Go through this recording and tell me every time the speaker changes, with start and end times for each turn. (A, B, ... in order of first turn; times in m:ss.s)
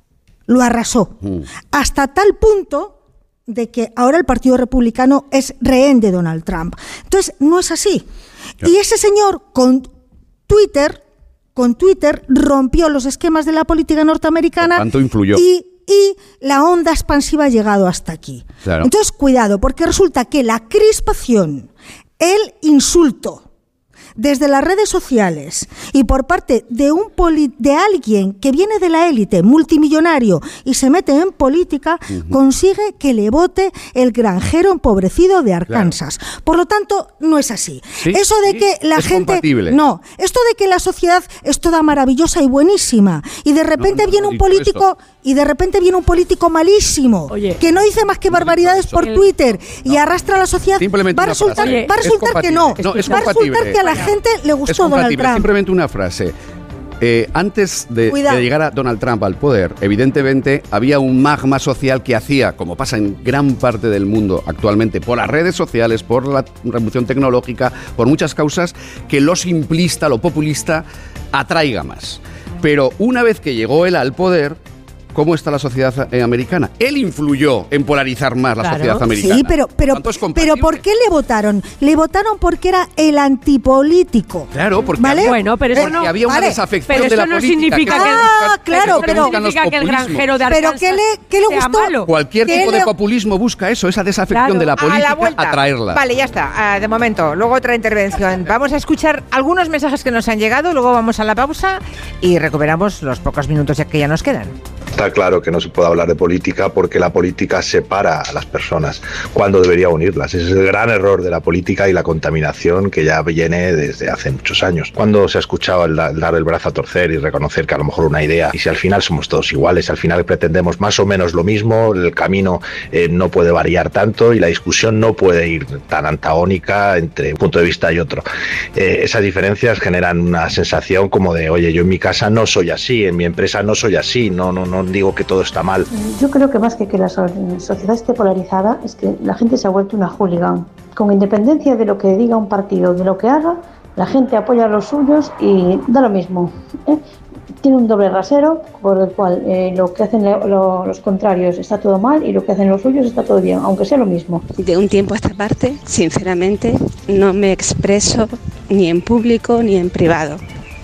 0:00.5-0:01.2 A
0:01.7-0:03.0 A
0:03.5-0:08.1 A
0:08.6-0:09.9 A
0:10.5-0:11.0 A
0:11.6-0:23.4 A
0:14.6-0:15.4 B
0:18.6-0:18.9 B
0:24.2-0:55.5 A
0:38.0-0:39.8 B
0:43.8-0:44.8 B
0:47.3-0:47.6 C
0:48.3-0:49.1 B
0:50.8-0:53.8 B
0:51.6-0:51.9 C
0:52.8-0:54.0 C
0:54.7-0:56.3 B
0:57.0-1:14.6 B
0:58.1-0:58.4 A
1:15.1-1:20.8 B
1:18.6-1:19.0 C
1:19.2-1:27.2 A
1:24.5-1:30.3 B
1:25.2-1:26.2 C
1:26.9-1:32.1 C
1:27.9-1:29.4 A
1:30.5-1:32.9 A
1:32.1-1:36.0 B
1:34.3-1:34.7 C
1:34.8-1:44.6 D
1:45.0-2:08.2 E
2:08.8-2:15.9 E
2:16.0-2:27.0 F
2:27.6-2:34.4 F
2:34.6-2:40.4 G